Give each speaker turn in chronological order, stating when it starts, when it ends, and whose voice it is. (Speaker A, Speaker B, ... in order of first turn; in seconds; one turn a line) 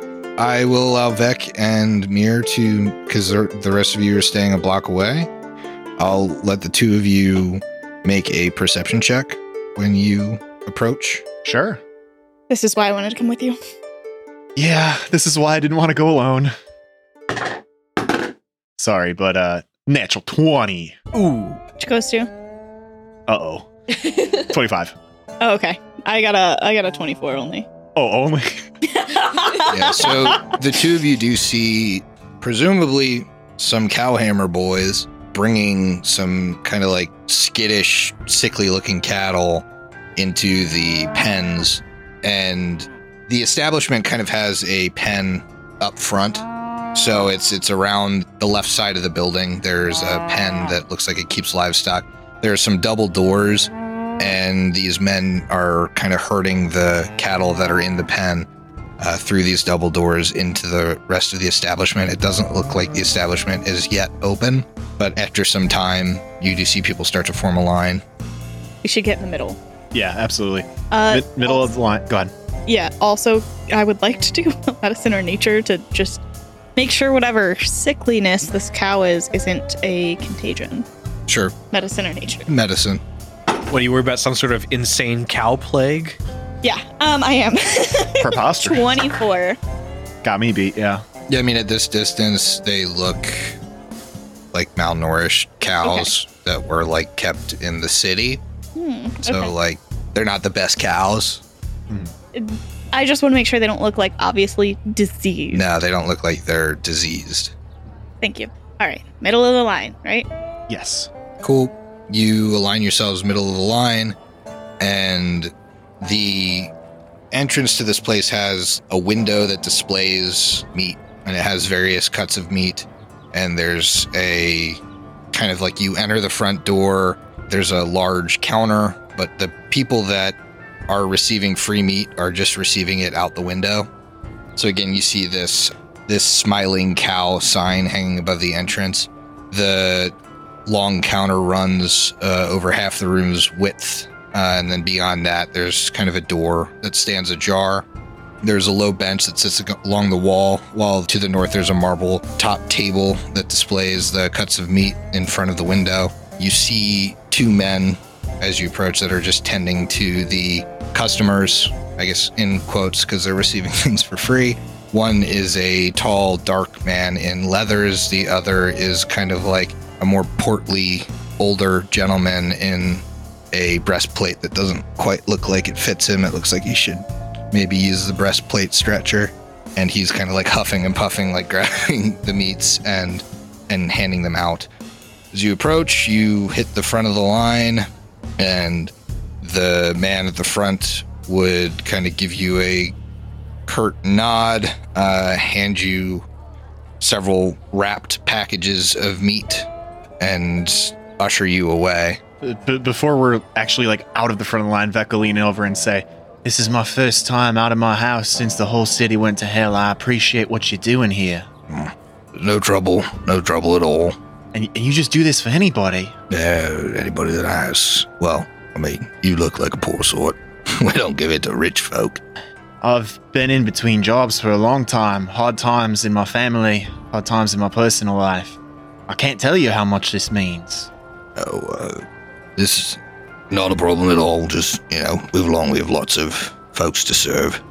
Speaker A: 0.4-5.3
Speaker A: 6.0-11.2
Speaker B: 11.4-11.8
Speaker C: 12.5-13.6
Speaker B: 14.6-16.5
Speaker B: 18.8-21.0
Speaker D: 21.1-21.6
Speaker C: 21.8-22.3
Speaker B: 23.3-24.9
Speaker C: 25.4-27.7
Speaker B: 27.9-28.7
Speaker C: 28.9-30.6
Speaker A: 29.6-39.6
Speaker A: 40.2-58.5
Speaker A: 59.0-68.0
Speaker C: 68.8-69.6
Speaker B: 69.9-72.3
Speaker C: 70.9-71.7
Speaker C: 72.7-76.2
Speaker C: 76.8-80.9
Speaker A: 81.3-81.5
Speaker C: 81.7-82.5
Speaker A: 82.5-83.0
Speaker D: 83.7-86.2
Speaker C: 86.6-89.6
Speaker B: 88.2-89.0
Speaker B: 90.2-91.0
Speaker A: 91.3-93.6
Speaker A: 94.5-98.4
Speaker C: 95.8-96.1
Speaker C: 98.8-99.5
Speaker A: 99.2-101.4
Speaker C: 102.3-105.6
Speaker A: 105.5-107.5
Speaker C: 108.2-110.3
Speaker B: 110.7-111.1
Speaker A: 111.4-114.2
Speaker A: 114.8-116.7
Speaker A: 117.3-124.8
Speaker A: 125.3-130.4
Speaker A: 130.9-133.9
Speaker A: 134.6-140.1
Speaker A: 140.7-147.8
Speaker A: 148.4-184.7
Speaker A: 185.3-187.8
Speaker A: 188.4-192.9
Speaker A: 193.7-196.2
Speaker A: 197.0-199.7
Speaker A: 200.2-202.2
Speaker B: 202.4-211.5
Speaker A: 211.7-214.2
Speaker B: 214.5-216.1
Speaker A: 216.3-222.2
Speaker B: 222.8-230.9
Speaker A: 231.3-232.0
Speaker A: 232.6-233.0
Speaker A: 233.5-237.6